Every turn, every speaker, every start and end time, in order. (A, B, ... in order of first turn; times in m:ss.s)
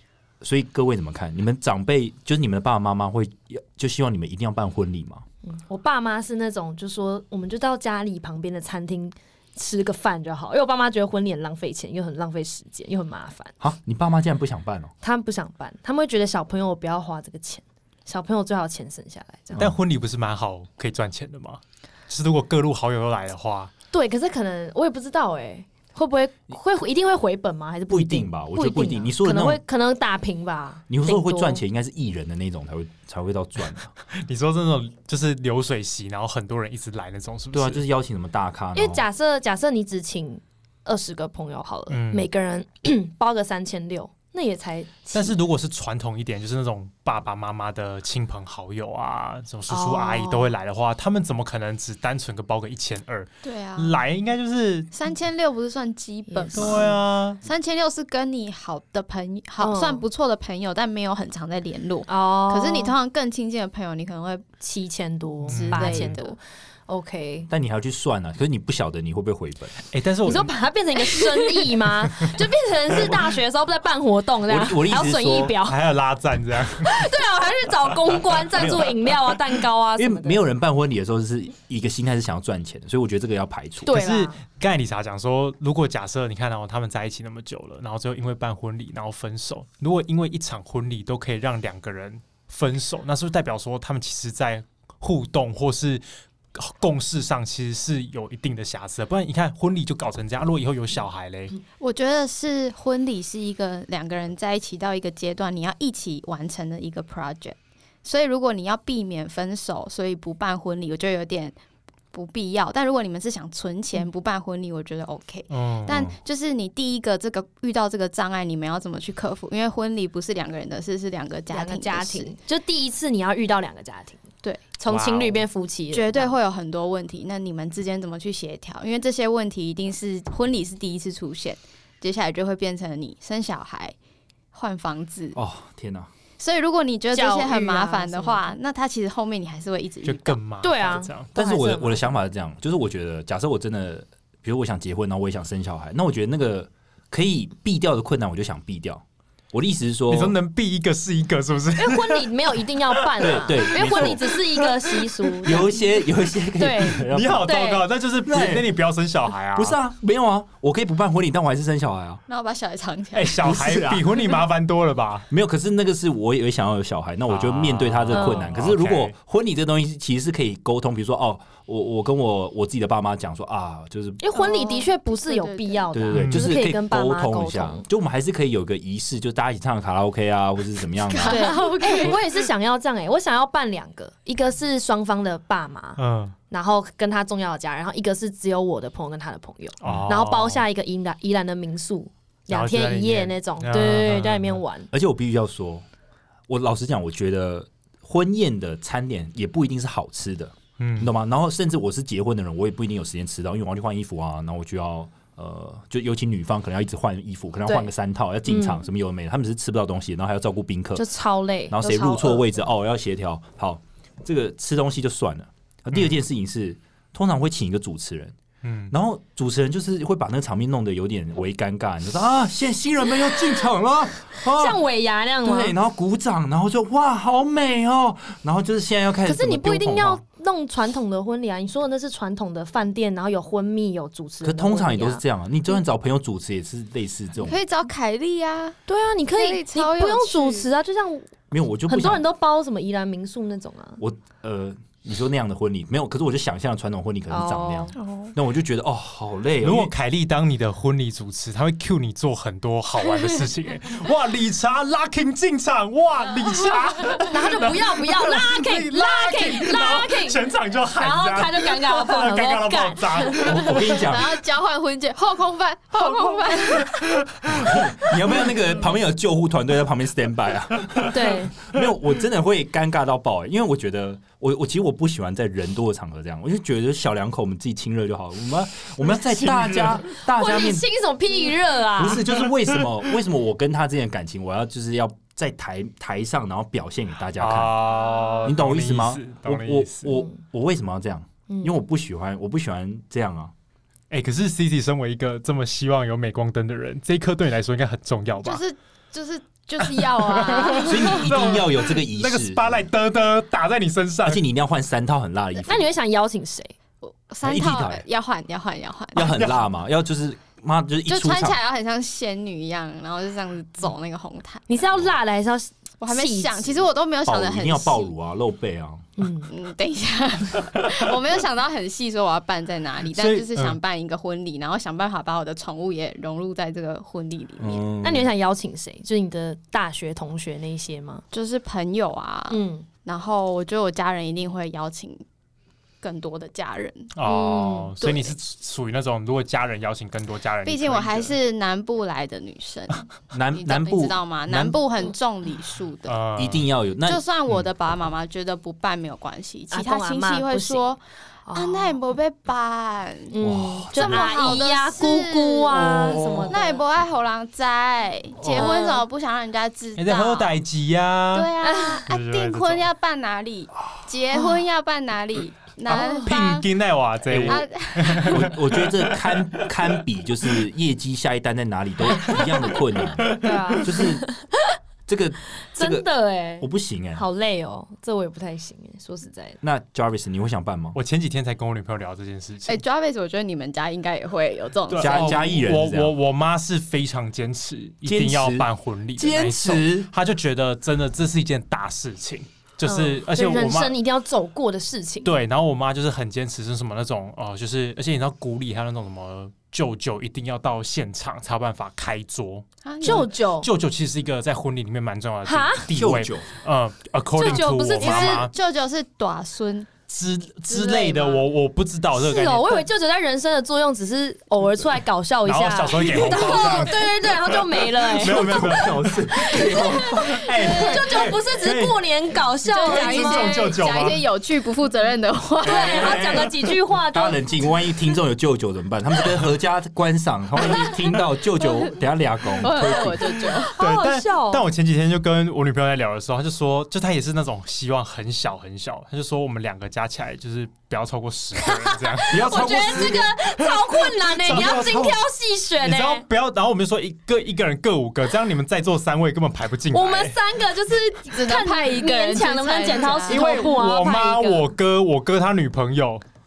0:00.4-0:05.2 A
0:05.4-0:13.5 B
0:13.6-0:14.9 A
0:15.0-0:19.7 B
0:19.6-0:23.7 C
0:23.9-0:31.6 B
0:27.9-0:29.6 A
0:30.9-0:33.9 A
0:34.1-0:37.8 C
0:37.5-0:39.0 A
0:38.8-0:45.4 B
0:41.9-0:42.3 C
0:45.1-0:54.9 C
0:49.7-0:50.6 B
0:53.4-0:54.0 D
0:54.9-0:56.9 D
0:56.3-0:57.0 B
0:56.5-0:57.4 C
0:57.4-1:04.4 D
0:59.6-1:00.0 B
1:02.1-1:03.0 B
1:04.6-1:07.5 B
1:05.5-1:06.2 C
1:05.5-1:06.4 D
1:07.5-1:09.8 A
1:09.9-1:10.5 C
1:10.2-1:15.8 B
1:14.5-1:15.6 A
1:15.6-1:17.1 C
1:16.8-1:20.4 B
1:18.5-1:19.3 A
1:20.0-1:23.9 A
1:23.8-1:41.6 C
1:23.9-1:24.4 B
1:41.8-1:51.6 D
1:52.1-2:02.3 D
1:55.5-1:55.9 C
1:55.9-1:56.2 A
2:01.5-2:04.2 B
2:04.4-2:04.8 D
2:04.8-2:06.4 B
2:04.9-2:05.4 C
2:05.9-2:14.0 D
2:14.5-2:15.4 D
2:15.4-2:16.1 A
2:16.4-2:20.4 D
2:17.1-2:18.5 B
2:20.0-2:21.3 C
2:20.6-2:22.2 B
2:21.4-2:30.4 A
2:30.1-2:33.3 C
2:31.8-2:36.0 B
2:33.2-2:34.3 A
2:35.4-2:37.6 A
2:36.6-2:37.9 B
2:37.1-2:39.8 C
2:38.3-2:38.8 A
2:39.6-2:42.2 A
2:42.3-2:43.4 D
2:43.1-2:45.3 C
2:43.4-2:44.3 A
2:45.3-2:54.2 A
2:47.3-2:49.2 C
2:48.1-2:48.5 B
2:54.2-2:57.8 B
2:54.4-2:55.8 D
2:55.9-3:01.4 A
2:56.1-2:56.5 C
3:01.1-3:02.4 D
3:01.2-3:14.9 B
3:06.0-3:06.4 C
3:09.8-3:10.6 C
3:09.8-3:10.1 A
3:12.5-3:14.6 C
3:14.9-3:15.8 A
3:16.5-3:31.0 A
3:20.8-3:21.1 C
3:27.7-3:27.9 B
3:28.4-3:28.8 B
3:31.0-3:32.6 B
3:31.7-3:38.4 A
3:38.6-3:38.9 C
3:38.9-3:44.8 A
3:44.4-3:45.7 B
3:45.4-3:50.2 A
3:49.2-3:55.2 B
3:54.4-3:57.6 A
3:57.4-3:58.8 D
3:58.9-4:01.3 B
3:59.3-4:00.6 D
4:01.5-4:02.3 A
4:01.9-4:04.0 B
4:04.0-4:09.9 A
4:07.3-4:07.9 B
4:08.0-4:08.3 D
4:09.6-4:23.8 C
4:17.2-4:20.4 B
4:20.9-4:23.8 B
4:23.4-4:24.4 A
4:24.0-4:27.0 D
4:26.0-4:28.5 C
4:27.5-4:40.9 A
4:31.1-4:31.5 B
4:39.2-4:40.0 C
4:40.0-4:42.2 B
4:42.0-4:47.8 A
4:47.4-4:50.1 C
4:48.4-4:53.5 A
4:51.5-4:51.8 B
4:54.1-4:58.6 C
4:58.4-5:01.8 D
4:59.8-5:04.4 C
5:00.8-5:02.7 A
5:04.2-5:05.9 A
5:05.6-5:06.7 B
5:07.0-5:09.3 D
5:07.4-5:08.0 A
5:09.1-5:11.6 A
5:09.3-5:09.7 C
5:11.1-5:14.8 D
5:14.7-5:16.8 B
5:16.0-5:18.1 D
5:17.3-5:19.1 A
5:19.2-5:19.5 B
5:19.5-5:27.8 D
5:23.1-5:23.8 C
5:27.6-5:28.3 A
5:28.0-5:31.2 B
5:31.3-5:35.2 D
5:32.5-5:32.9 B
5:36.0-5:37.1 D
5:37.1-5:41.4 C
5:37.2-5:38.0 B
5:38.0-5:38.4 D
5:40.6-5:46.2 D
5:43.3-5:44.8 A
5:46.0-5:46.7 C
5:46.4-5:47.3 A
5:47.0-5:53.3 D
5:49.7-5:50.9 B
5:51.5-5:52.0 B
5:53.3-5:56.8 B
5:53.4-5:54.3 A
5:53.9-6:00.6 D
5:55.8-5:56.6 A
5:55.9-5:56.5 C
5:58.4-5:59.0 B
6:00.0-6:01.5 C
6:01.3-6:06.7 D
6:01.6-6:02.0 B
6:02.1-6:02.9 C
6:05.9-6:08.6 C
6:07.3-6:07.7 A
6:07.4-6:08.5 D
6:08.2-6:14.2 A
6:13.3-6:14.5 B
6:15.1-6:17.2 A
6:15.8-6:19.6 B
6:19.6-6:21.0 A
6:21.0-6:22.8 C
6:22.7-6:25.4 D
6:24.9-6:34.0 C
6:25.0-6:26.2 A
6:28.0-6:30.1 A
6:32.8-6:35.4 B
6:35.2-6:48.6 C
6:42.8-6:43.4 D
6:43.0-6:43.7 B
6:45.4-6:45.9 B
6:45.9-6:46.5 A
6:47.4-6:48.4 B
6:47.5-6:50.0 D
6:50.1-6:52.9 C
6:50.7-6:51.4 D
6:52.2-7:03.7 B
6:55.4-6:59.2 C
6:58.2-7:00.4 A
7:00.3-7:02.0 C
7:02.7-7:06.2 D
7:02.7-7:04.3 C
7:05.6-7:08.2 B
7:05.6-7:13.3 A
7:11.6-7:11.9 D
7:12.6-7:13.7 D
7:13.7-7:14.7 B
7:13.8-7:23.2 C
7:21.6-7:26.3 B
7:22.3-7:23.3 A
7:23.8-7:25.2 C
7:24.5-7:25.2 A
7:25.8-7:30.4 C
7:29.9-7:34.7 B
7:31.3-7:33.5 D
7:33.3-7:36.2 C